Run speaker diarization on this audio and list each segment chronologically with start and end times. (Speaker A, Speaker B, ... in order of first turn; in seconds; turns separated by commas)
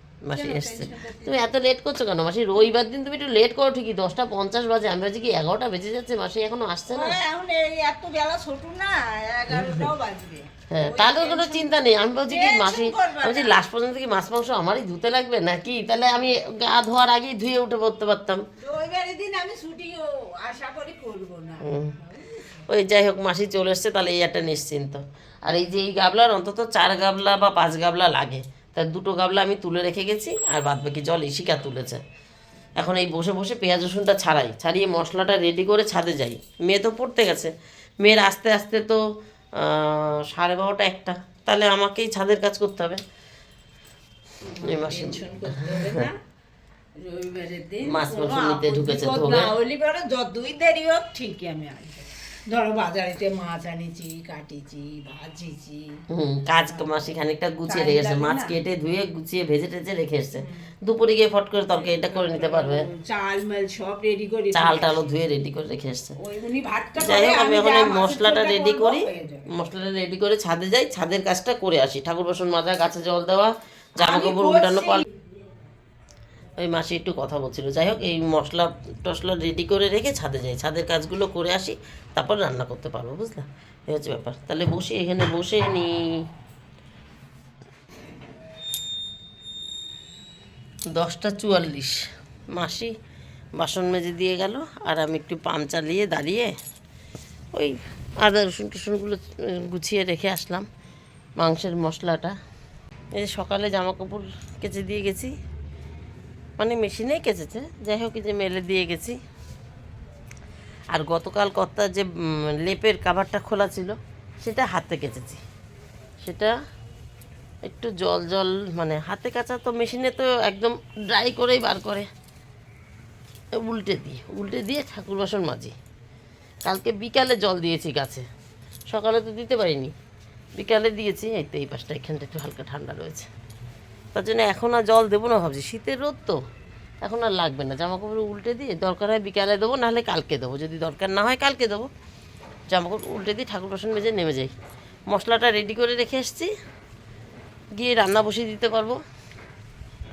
Speaker A: 0.3-7.2, Speaker B: 0.4-1.4, Speaker B: 6.9-11.7, Speaker A: 9.5-9.9, Speaker A: 10.7-18.4, Speaker B: 12.3-13.6, Speaker B: 18.6-22.4, Speaker A: 21.6-22.0, Speaker A: 22.7-32.0, Speaker A: 32.8-39.0, Speaker A: 39.6-43.0, Speaker B: 44.5-46.2, Speaker A: 44.6-46.1, Speaker B: 47.0-56.0, Speaker A: 47.8-49.5, Speaker A: 56.1-62.9, Speaker B: 57.7-58.6, Speaker B: 61.8-65.0, Speaker A: 64.5-66.2, Speaker B: 66.2-69.5, Speaker A: 67.0-75.0, Speaker B: 74.0-75.0, Speaker A: 76.6-86.3, Speaker A: 90.9-92.9, Speaker A: 93.6-96.5, Speaker A: 97.5-100.7, Speaker A: 101.4-102.3, Speaker A: 103.2-105.3, Speaker A: 106.6-109.2, Speaker A: 110.9-115.4, Speaker A: 116.2-116.5, Speaker A: 117.7-122.1, Speaker A: 123.6-125.7, Speaker A: 126.7-128.3, Speaker A: 128.9-129.9, Speaker A: 130.6-133.3, Speaker A: 134.1-136.4, Speaker A: 137.0-141.9, Speaker A: 142.7-144.5, Speaker A: 145.1-146.5, Speaker A: 147.8-149.0